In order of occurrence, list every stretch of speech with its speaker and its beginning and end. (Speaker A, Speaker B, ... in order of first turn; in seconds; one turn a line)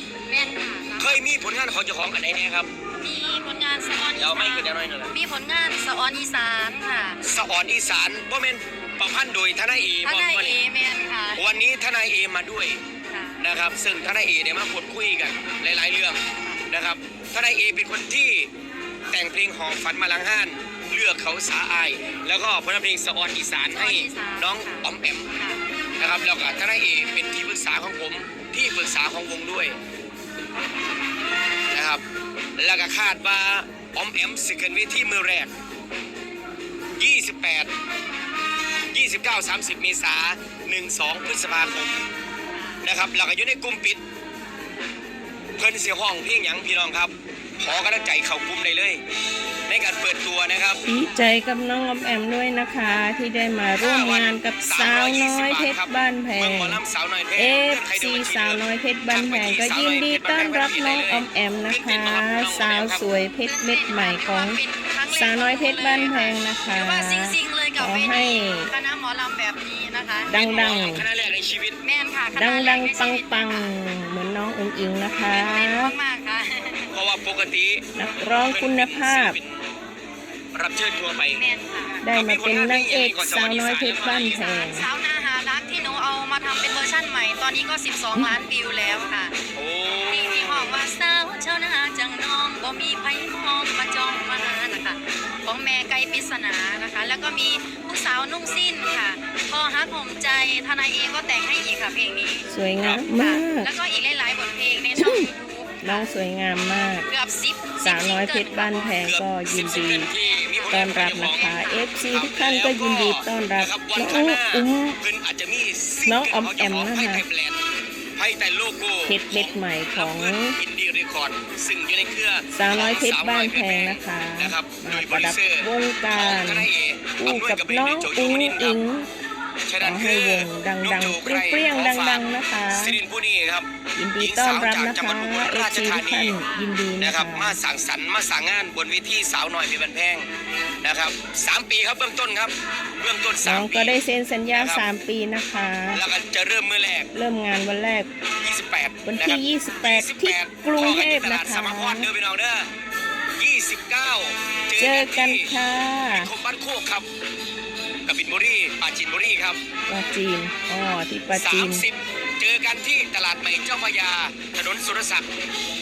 Speaker A: 0.3-1.2
Speaker B: 1.0-2.7
Speaker A: 3.0-7.2
Speaker B: 4.2-5.1
Speaker B: 7.2-10.5
Speaker A: 10.0-11.4
Speaker B: 11.4-12.8
Speaker A: 13.1-13.4
Speaker B: 13.4-18.5
Speaker B: 19.1-25.3
Speaker A: 23.7-25.6
Speaker B: 26.0-29.8
Speaker B: 31.7-32.0
Speaker B: 32.6-35.5
Speaker B: 37.0-37.7
Speaker B: 38.9-42.0
Speaker A: 42.5-42.8
Speaker B: 42.8-44.0
Speaker B: 45.6-49.0
Speaker B: 49.7-50.8
Speaker C: 50.9-56.8
Speaker B: 53.8-63.0
Speaker C: 57.4-64.6
Speaker A: 63.4-70.8
Speaker C: 65.1-68.7
Speaker C: 70.3-71.1
Speaker B: 70.3-71.8
Speaker A: 71.8-73.7
Speaker C: 72.3-75.9
Speaker A: 75.3-76.9
Speaker B: 76.9-79.7
Speaker C: 77.9-79.4
Speaker B: 80.5-81.4
Speaker A: 81.3-82.0
Speaker C: 82.0-84.8
Speaker B: 82.0-84.4
Speaker A: 84.0-89.3
Speaker B: 89.5-90.7
Speaker A: 90.1-102.5
Speaker C: 102.5-103.7
Speaker A: 103.1-106.1
Speaker C: 105.0-105.3
Speaker C: 105.8-107.1
Speaker A: 107.0-109.0
Speaker C: 107.8-110.1
Speaker B: 109.0-111.6
Speaker A: 110.1-111.9
Speaker C: 110.7-115.0
Speaker B: 112.1-117.6
Speaker C: 116.0-117.2
Speaker B: 118.2-128.8
Speaker C: 119.0-120.5
Speaker C: 122.5-126.7
Speaker C: 127.2-129.1
Speaker B: 129.7-133.7
Speaker C: 129.8-133.0
Speaker C: 133.9-137.6
Speaker B: 134.2-136.4
Speaker A: 136.4-136.8
Speaker B: 137.0-140.3
Speaker B: 140.8-143.9
Speaker C: 143.4-146.0
Speaker B: 144.5-144.8
Speaker B: 145.9-147.1
Speaker C: 147.1-148.1
Speaker B: 148.4-152.7
Speaker C: 149.0-152.1
Speaker B: 153.4-155.5
Speaker C: 154.8-156.3
Speaker B: 156.1-157.1
Speaker B: 158.1-159.6
Speaker C: 159.9-161.8
Speaker B: 161.3-165.3